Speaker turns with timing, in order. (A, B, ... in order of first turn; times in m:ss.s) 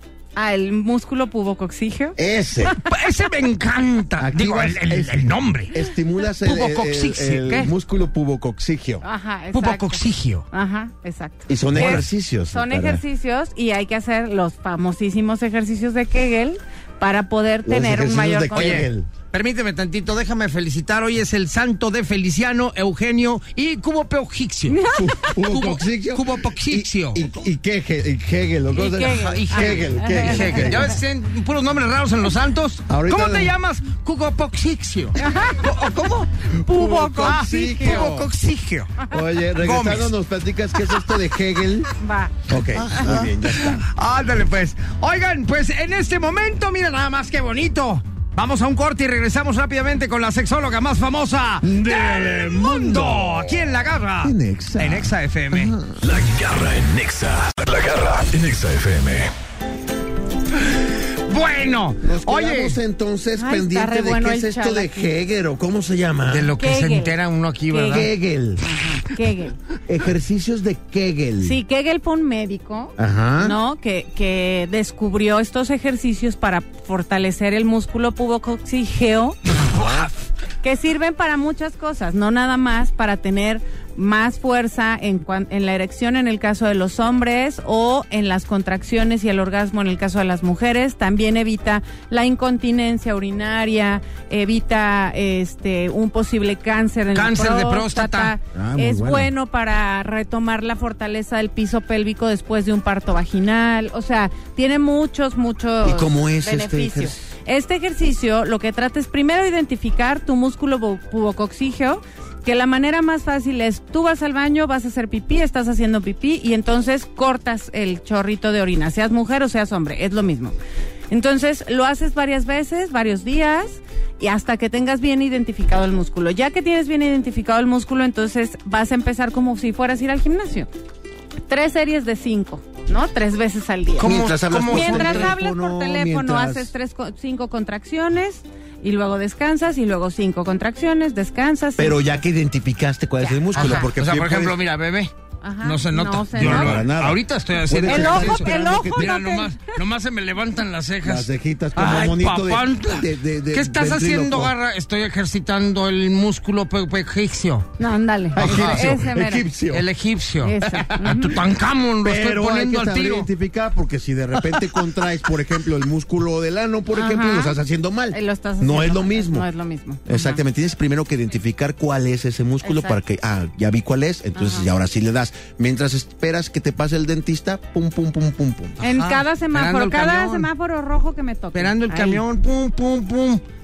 0:00.4-0:02.9 A
0:02.2-0:02.8 B
0:02.9-0:05.8 C
0:04.2-0:09.0 B
0:06.3-0:07.7 C
0:09.0-0:10.0 A
0:09.5-0:10.5 C
0:10.5-0:18.9 A
0:11.5-0:13.0 B
0:11.7-0:12.0 C
0:17.6-0:19.1 B
0:18.5-0:27.2 C
0:24.7-0:25.3 A
0:25.0-0:31.0 B
0:28.7-0:30.7 A
0:29.0-0:40.1 C
0:32.9-0:33.5 B
0:35.2-0:35.7 A
0:36.6-0:38.0 A
0:36.6-0:38.3 B
0:39.1-0:41.9 B
0:40.9-0:41.2 C
0:42.0-0:42.4 A
0:42.5-0:43.9 B
0:42.8-0:55.8 C
0:51.6-0:53.5 B
0:54.2-0:56.0 B
0:56.0-0:59.3 D
1:01.3-1:02.8 C
1:02.0-1:06.5 B
1:03.4-1:05.1 A
1:06.3-1:08.1 C
1:06.6-1:07.1 A
1:07.7-1:08.1 A
1:07.8-1:08.6 B
1:08.6-1:09.6 A
1:09.9-1:11.6 B
1:11.4-1:19.4 A
1:13.0-1:13.6 B
1:19.7-1:20.1 B
1:19.7-1:20.1 C
1:20.6-2:00.6 A
1:37.2-1:38.3 C
1:38.5-1:39.3 B
1:45.8-1:47.2 B
2:01.1-2:10.7 A
2:11.5-2:14.2 A
2:14.0-2:15.4 C
2:14.0-2:16.7 B
2:14.7-2:22.2 A
2:21.8-2:24.6 B
2:23.2-2:23.9 A
2:23.6-2:25.1 C
2:25.4-2:26.8 A
2:25.6-2:37.7 C
2:26.4-2:29.1 B
2:27.9-2:29.7 A
2:31.0-2:34.5 B
2:37.8-2:39.5 A
2:38.4-2:39.9 B
2:38.4-2:38.9 C
2:39.7-2:43.3 C
2:40.4-2:41.4 A
2:40.6-2:41.2 B
2:42.0-2:49.5 B
2:46.9-2:47.6 A
2:48.1-2:50.4 A
2:50.1-2:58.8 B
2:52.6-2:53.0 A
2:54.4-2:54.7 A
2:58.8-3:00.5 C
2:58.8-3:02.2 A
3:01.5-3:03.4 C